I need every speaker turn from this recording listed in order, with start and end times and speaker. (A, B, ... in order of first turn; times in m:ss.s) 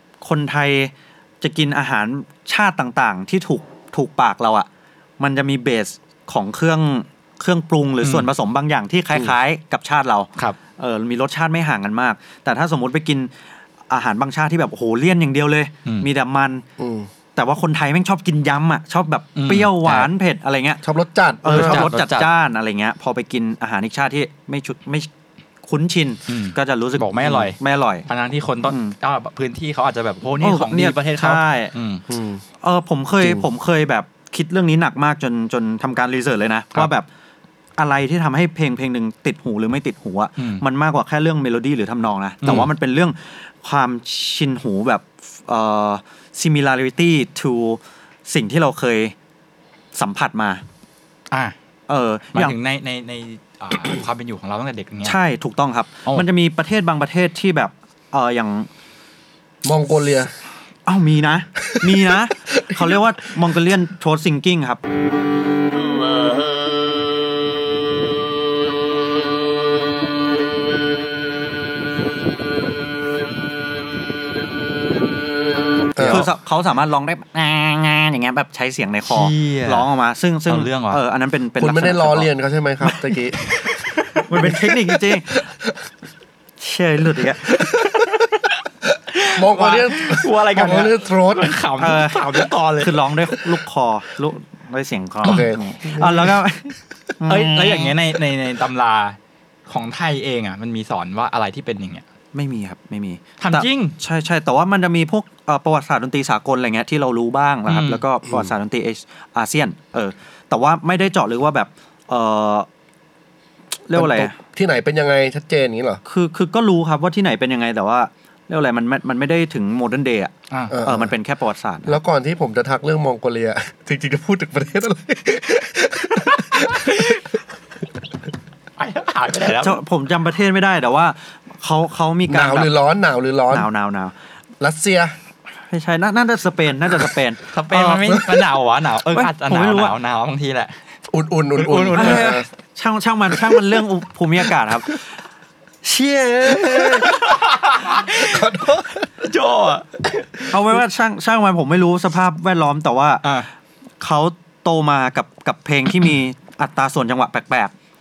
0:00.2-0:04.7 A
0:05.2-0:13.3 A
0:08.0-0:08.3 B
0:13.9-0:16.6 A
0:16.8-0:17.1 C
0:17.4-0:20.8 A
0:19.3-0:20.1 B
0:20.8-0:21.9 C
0:21.4-0:25.1 A
0:21.5-0:22.3 B
0:25.6-0:28.0 A
0:26.3-0:32.0 B
0:28.7-0:28.9 A
0:30.4-0:31.7 A
0:32.1-0:32.4 C
0:32.6-0:37.0 A
0:37.8-0:49.1 A
0:40.4-0:40.6 B
0:42.4-0:42.7 B
0:49.9-0:50.6 A
0:51.9-0:52.6 A
0:52.3-0:55.2 B
0:55.0-0:58.7 A
0:59.6-1:00.3 C
1:00.8-1:04.8 A
1:01.8-1:03.0 C
1:15.9-1:16.3 B
1:15.9-1:16.3 C
1:16.0-1:22.3 A
1:19.1-1:19.8 B
1:20.5-1:21.0 B
1:21.6-1:23.4 C
1:23.4-1:24.2 B
1:24.3-1:25.4 A
1:25.3-1:25.7 C
1:26.6-1:27.5 A
1:27.5-1:28.1 C
1:27.8-1:28.3 B
1:29.1-1:33.4 B
1:29.3-1:31.6 C
1:31.8-1:37.9 A
1:35.2-1:36.4 C
1:37.3-1:42.0 B
1:42.3-1:52.7 A
1:43.4-1:44.0 B
1:47.7-1:48.0 B
1:53.9-1:54.3 A
1:53.9-1:56.0 C
1:56.0-2:00.3 A
2:00.7-2:01.1 C
2:00.8-2:02.0 A
2:01.8-2:07.2 C
2:06.4-2:07.2 B
2:08.8-2:09.8 B
2:09.6-2:12.7 A
2:12.3-2:13.7 C
2:13.5-2:14.1 A
2:14.6-2:15.2 C
2:15.7-2:18.3 A
2:17.5-2:20.8 B
2:19.1-2:19.9 A
2:21.1-2:22.4 C
2:21.6-2:22.4 B
2:21.9-2:25.1 A
2:23.3-2:23.8 C
2:25.8-2:27.1 A
2:26.4-2:27.2 C
2:27.0-2:30.5 B
2:27.8-2:29.1 C
2:30.5-2:33.4 A
2:34.0-2:37.7 A